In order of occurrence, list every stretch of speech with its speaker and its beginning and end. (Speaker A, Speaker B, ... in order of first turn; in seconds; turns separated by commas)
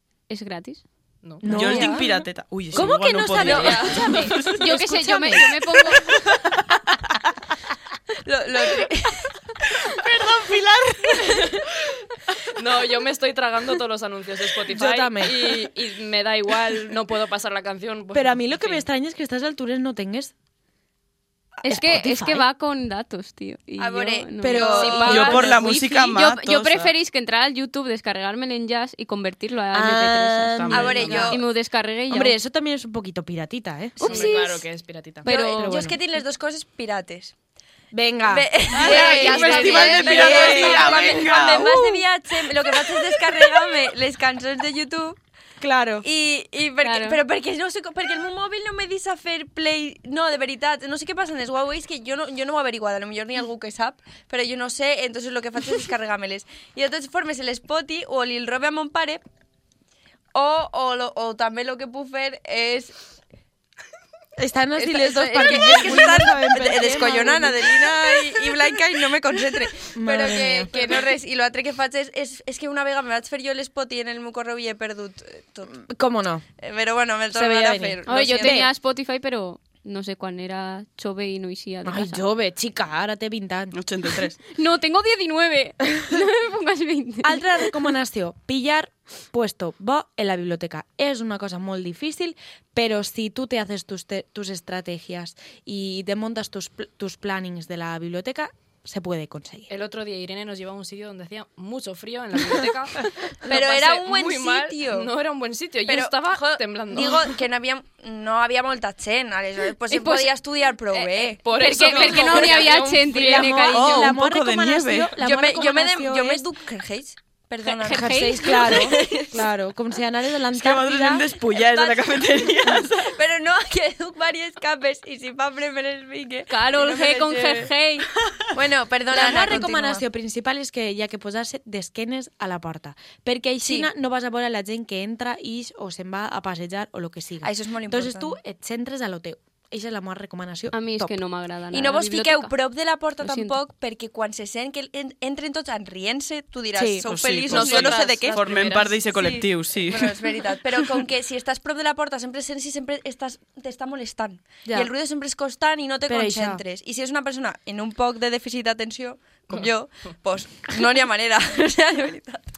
Speaker A: 0.3-0.8, Speaker B: 1.2-1.5, Speaker C: 1.4-2.1, Speaker D: 1.4-4.7, Speaker E: 1.5-2.1, Speaker C: 2.7-5.5, Speaker B: 3.4-4.3, Speaker E: 3.6-4.0, Speaker A: 4.0-6.0, Speaker D: 6.1-6.4, Speaker E: 8.2-9.3, Speaker D: 9.8-11.6, Speaker B: 12.5-18.9, Speaker C: 14.7-15.6, Speaker C: 18.1-20.3, Speaker A: 21.6-32.4, Speaker C: 21.7-22.4, Speaker E: 23.8-25.5, Speaker C: 24.4-25.8, Speaker B: 24.8-25.3, Speaker D: 25.0-26.9, Speaker C: 29.7-31.4, Speaker D: 30.6-31.3, Speaker E: 30.7-31.4, Speaker C: 32.1-34.0, Speaker A: 34.0-34.6, Speaker E: 34.0-34.3, Speaker B: 34.0-35.3, Speaker A: 35.2-35.8, Speaker E: 35.3-37.3, Speaker C: 35.3-36.0, Speaker C: 37.9-42.0, Speaker E: 38.3-45.2, Speaker D: 38.7-41.8, Speaker B: 38.8-41.0, Speaker C: 42.9-43.4, Speaker C: 45.6-46.1, Speaker E: 46.0-59.2, Speaker A: 46.8-47.2, Speaker E: 60.3-63.0, Speaker C: 64.4-68.2, Speaker E: 64.8-75.8, Speaker C: 69.9-71.0, Speaker C: 75.7-76.5, Speaker E: 76.6-78.7, Speaker C: 77.3-78.7, Speaker A: 78.1-82.2, Speaker C: 81.8-83.8, Speaker D: 83.7-84.4, Speaker A: 84.5-87.7, Speaker C: 87.2-99.7, Speaker B: 99.7-107.4, Speaker E: 103.5-105.1, Speaker E: 105.9-112.7, Speaker A: 109.9-110.3, Speaker A: 111.0-114.2, Speaker B: 111.4-113.6, Speaker C: 113.1-116.5, Speaker D: 113.7-115.2, Speaker E: 115.2-119.5, Speaker A: 117.6-119.0, Speaker C: 117.8-121.2, Speaker D: 120.5-123.1, Speaker E: 121.5-127.7, Speaker A: 126.5-128.1, Speaker E: 128.5-130.0, Speaker C: 129.1-141.2, Speaker E: 133.6-133.9, Speaker E: 137.4-138.4, Speaker A: 140.7-142.6, Speaker E: 141.7-162.4, Speaker A: 143.2-143.6, Speaker C: 146.8-147.1, Speaker D: 147.1-150.8, Speaker B: 147.5-149.0, Speaker C: 154.7-154.9, Speaker C: 156.1-156.6